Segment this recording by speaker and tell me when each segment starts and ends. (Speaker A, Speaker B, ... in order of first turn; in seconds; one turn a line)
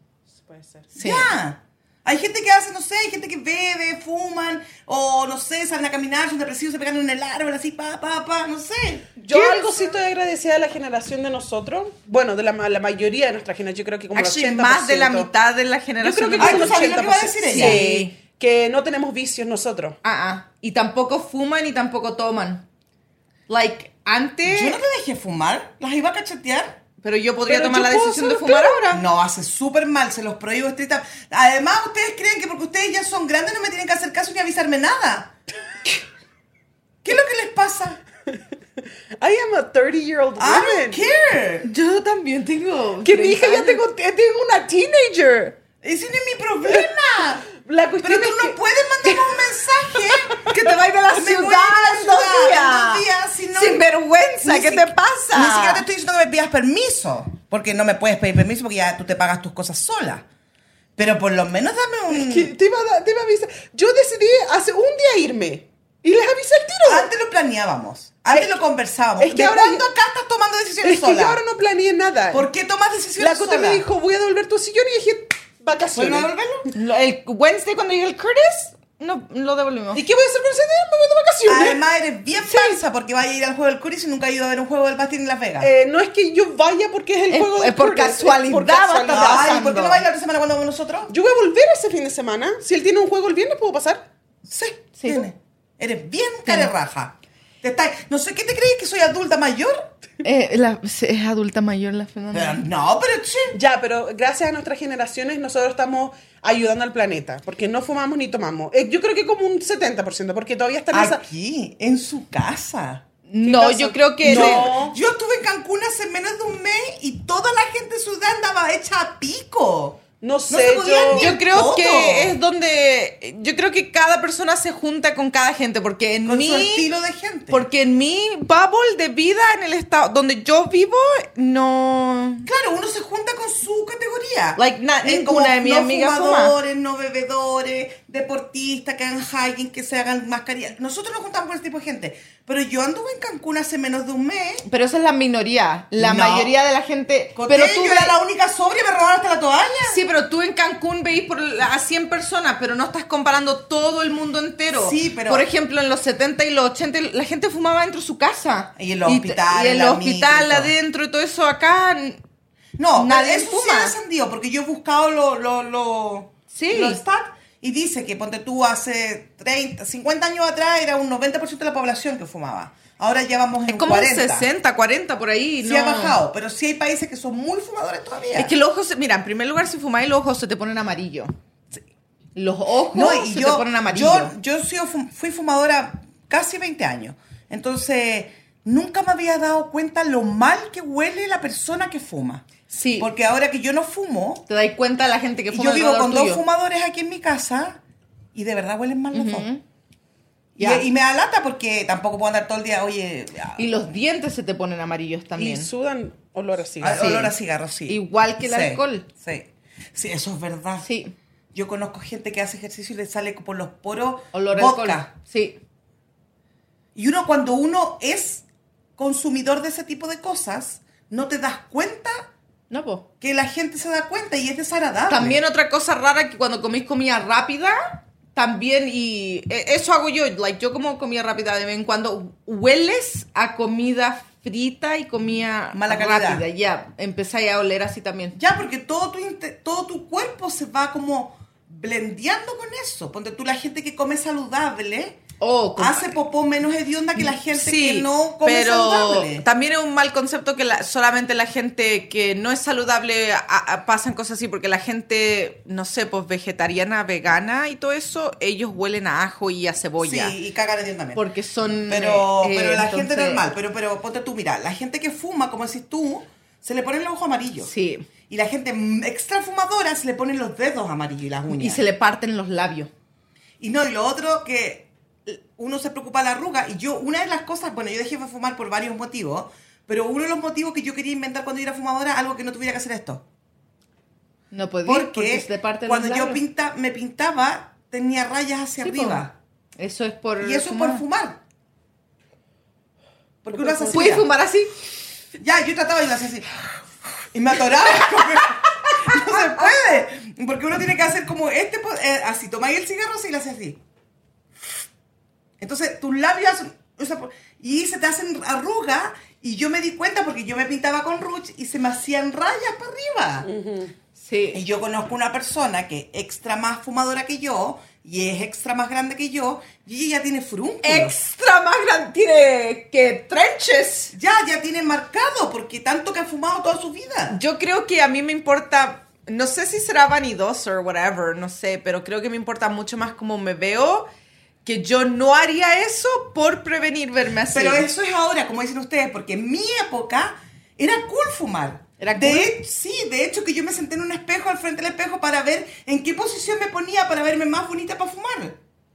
Speaker A: 0.3-0.9
Speaker B: 0.9-9.1
Speaker C: 1.0-1.3
Speaker A: 9.2-15.3
Speaker C: 9.2-9.9
Speaker C: 14.1-18.1
Speaker A: 16.0-20.0
Speaker B: 16.4-17.8
Speaker C: 20.0-22.6
Speaker C: 23.5-24.8
Speaker B: 24.4-26.8
Speaker C: 27.0-29.0
Speaker A: 27.5-28.8
Speaker B: 28.9-35.3
Speaker B: 37.0-38.0
Speaker A: 39.2-41.0
Speaker B: 40.4-41.7
Speaker C: 41.6-43.8
Speaker A: 43.0-45.5
Speaker B: 45.8-47.5
Speaker A: 47.5-49.2
Speaker B: 48.0-50.5
Speaker A: 50.2-50.5
Speaker C: 50.4-55.8
Speaker B: 51.1-53.9
Speaker B: 54.4-60.3
Speaker B: 61.0-62.5
Speaker A: 62.1-67.1
Speaker B: 66.9-71.4
Speaker A: 68.3-68.6
Speaker A: 69.2-69.8
Speaker A: 70.8-72.5
Speaker B: 72.3-73.8
Speaker A: 73.2-76.3
Speaker B: 75.9-76.7
Speaker C: 76.7-80.0
Speaker A: 79.9-81.8
Speaker B: 81.5-85.7
Speaker A: 85.6-89.5
Speaker C: 87.3-90.0
Speaker B: 89.1-91.1
Speaker A: 91.1-94.0
Speaker B: 94.4-99.9
Speaker C: 95.0-95.3
Speaker C: 96.5-96.7
Speaker C: 100.2-102.6
Speaker B: 102.3-103.5
Speaker A: 103.5-111.2
Speaker B: 110.9-113.0
Speaker C: 113.3-114.7
Speaker A: 113.4-115.0
Speaker B: 114.2-122.4
Speaker A: 120.2-121.3
Speaker C: 121.1-126.9
Speaker B: 126.2-127.7
Speaker C: 127.5-132.5
Speaker B: 132.4-144.6
Speaker C: 134.6-136.6
Speaker C: 144.6-148.1
Speaker B: 145.9-146.5
Speaker B: 147.4-150.0
Speaker C: 149.9-162.2
Speaker B: 154.7-155.5
Speaker B: 158.8-160.7
Speaker B: 162.8-174.5
Speaker C: 162.9-163.9
Speaker C: 166.5-167.0
Speaker C: 173.7-176.2
Speaker B: 175.6-178.5
Speaker C: 178.4-181.3
Speaker C: 182.3-184.3
Speaker B: 182.9-194.5
Speaker C: 192.7-193.1
Speaker C: 194.5-196.4
Speaker B: 195.5-197.8
Speaker B: 198.3-199.5
Speaker C: 199.1-199.6
Speaker C: 200.6-200.8
Speaker B: 200.6-203.7
Speaker C: 203.6-205.7
Speaker A: 205.4-207.2
Speaker B: 206.8-210.9
Speaker C: 206.9-207.3
Speaker C: 207.9-209.1
Speaker C: 210.8-211.1
Speaker B: 211.5-215.1
Speaker C: 214.3-215.6
Speaker B: 216.9-218.4
Speaker B: 219.0-222.3
Speaker C: 222.7-223.1
Speaker B: 223.2-225.4
Speaker C: 225.1-238.4
Speaker B: 235.7-236.4
Speaker B: 238.4-245.2
Speaker C: 245.4-246.1
Speaker B: 245.8-249.4
Speaker C: 247.2-260.3
Speaker B: 260.0-261.2
Speaker C: 261.1-263.4
Speaker B: 261.9-267.7
Speaker C: 267.6-268.1
Speaker B: 268.3-271.8
Speaker C: 271.5-272.9
Speaker B: 273.6-283.2
Speaker C: 284.5-286.4
Speaker B: 284.8-289.3
Speaker C: 288.8-289.2
Speaker C: 289.8-291.0
Speaker B: 290.4-291.4
Speaker B: 293.4-294.3
Speaker A: 293.5-294.1
Speaker C: 293.9-294.7
Speaker B: 295.4-296.8
Speaker B: 297.3-303.8
Speaker B: 305.6-313.5
Speaker A: 313.4-313.9
Speaker C: 314.2-314.6
Speaker B: 314.5-321.1
Speaker C: 320.8-324.1
Speaker B: 324.1-327.4
Speaker C: 327.3-334.1
Speaker C: 334.6-337.9
Speaker B: 337.5-348.6
Speaker C: 342.0-342.5